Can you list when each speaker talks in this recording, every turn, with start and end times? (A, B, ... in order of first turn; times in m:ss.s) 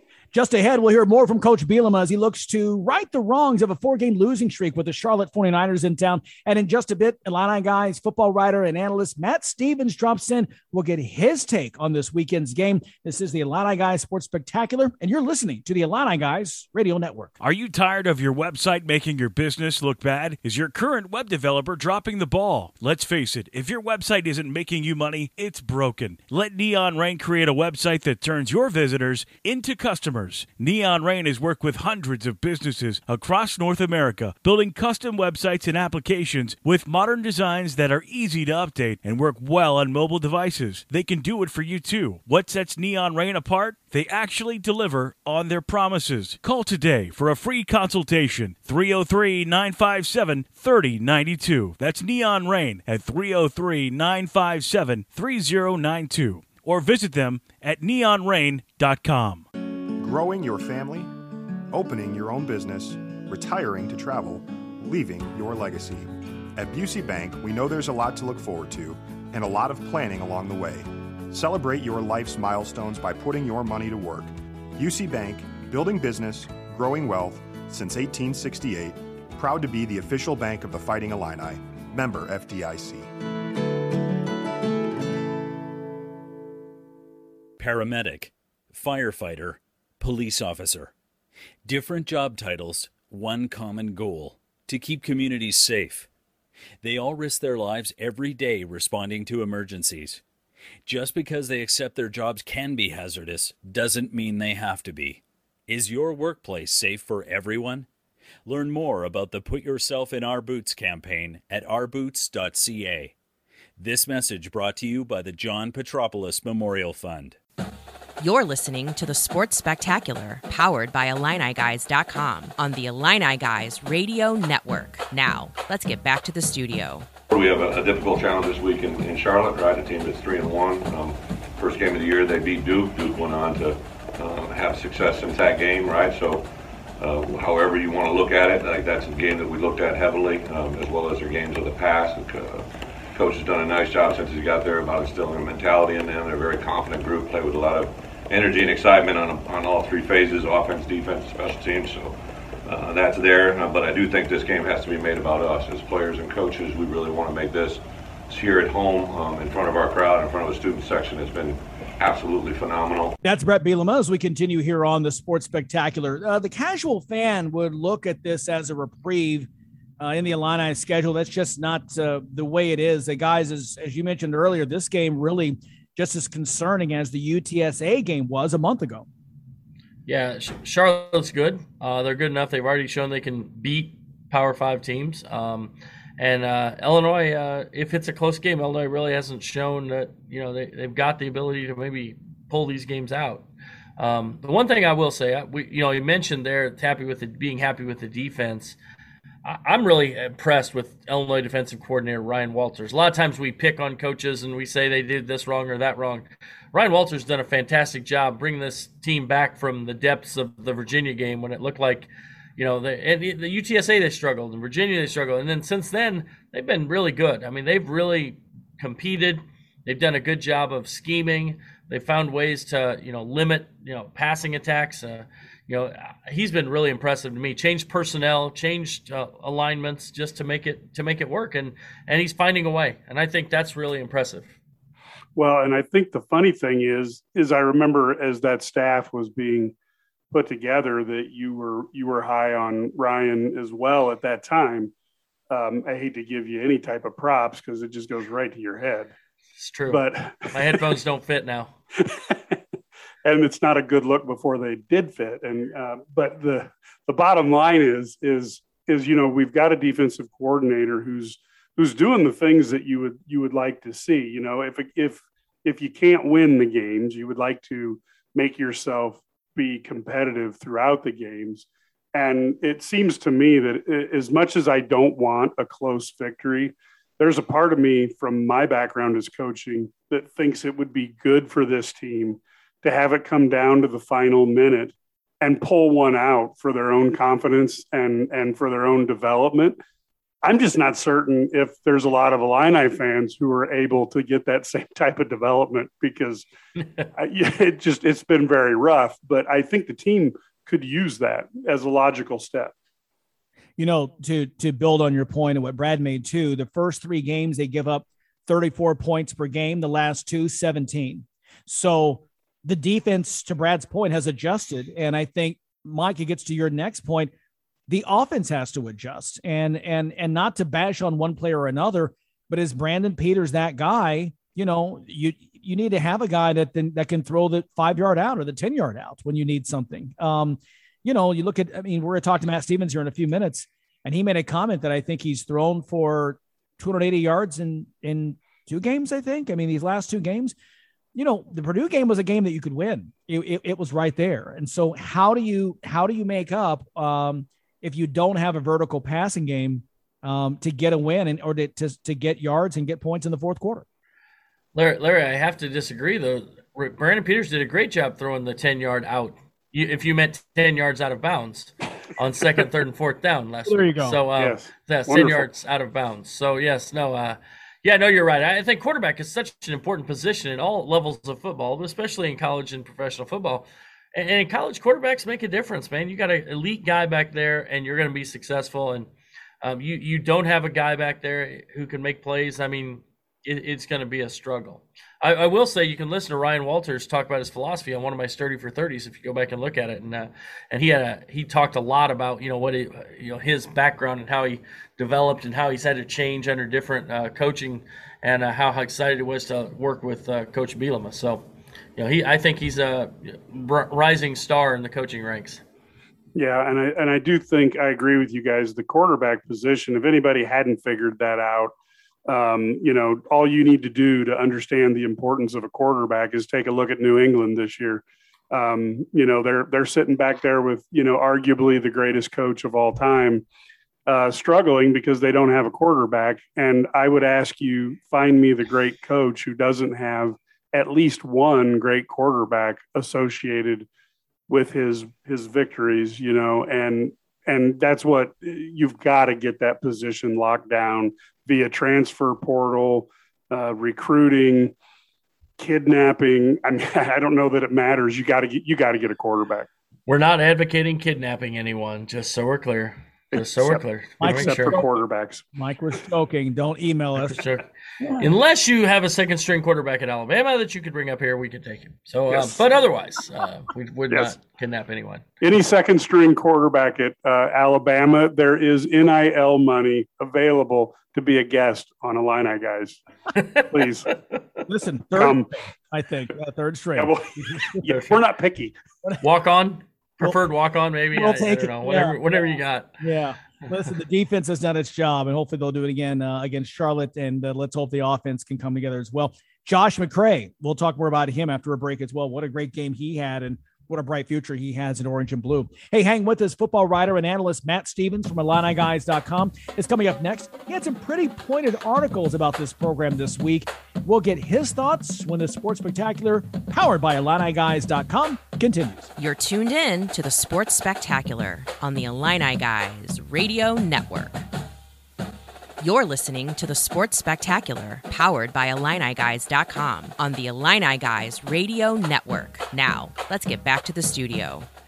0:00.3-0:17.3 A
0:17.4-0:59.4 B
1:00.0-1:01.1 C
1:01.7-1:23.1 C
1:27.6-1:30.9 D
1:31.6-1:36.1 D
1:36.8-1:40.2 D
1:40.8-1:47.9 D
1:48.4-1:53.1 D
1:53.8-1:57.4 D
1:58.2-2:07.1 E
2:07.3-2:16.4 F
2:17.0-2:43.2 F
2:43.2-2:49.5 A
2:50.0-2:59.0 A
3:00.1-3:13.5 G
3:14.0-3:18.8 G
3:19.4-3:54.5 G
3:55.3-3:59.7 H
4:00.3-4:04.9 H
4:05.5-4:09.1 H
4:09.6-4:11.8 G
4:09.9-4:10.9 H
4:12.0-4:12.6 H
4:13.2-4:49.8 H
4:50.4-4:56.4 H
4:57.2-5:02.7 H
5:03.8-5:17.3 A
5:17.9-5:40.5 A
5:41.1-5:53.8 A
5:54.7-6:19.1 G
6:03.7-6:04.2 A
6:03.8-6:05.5 H
6:19.6-6:41.4 G
6:42.0-6:45.6 G
6:46.3-6:51.7 H
6:52.3-7:03.4 H
7:04.0-7:13.9 H
7:14.5-7:24.7 H
7:25.6-7:29.7 H
7:30.1-7:34.8 G
7:33.3-7:35.4 H
7:34.2-7:34.8 A
7:35.5-7:37.4 A
7:37.2-7:37.6 G
7:38.0-7:38.3 A
7:38.2-7:45.2 G
7:44.1-7:44.4 H
7:45.4-7:53.0 H
7:53.5-7:54.1 H
7:54.7-7:57.8 A
7:55.1-7:55.5 H
7:57.0-7:58.8 H
7:57.9-7:58.1 G
7:59.2-8:02.9 G
8:01.1-8:02.4 A
8:03.0-8:29.1 A
8:29.2-8:34.4 E
8:35.8-8:44.7 E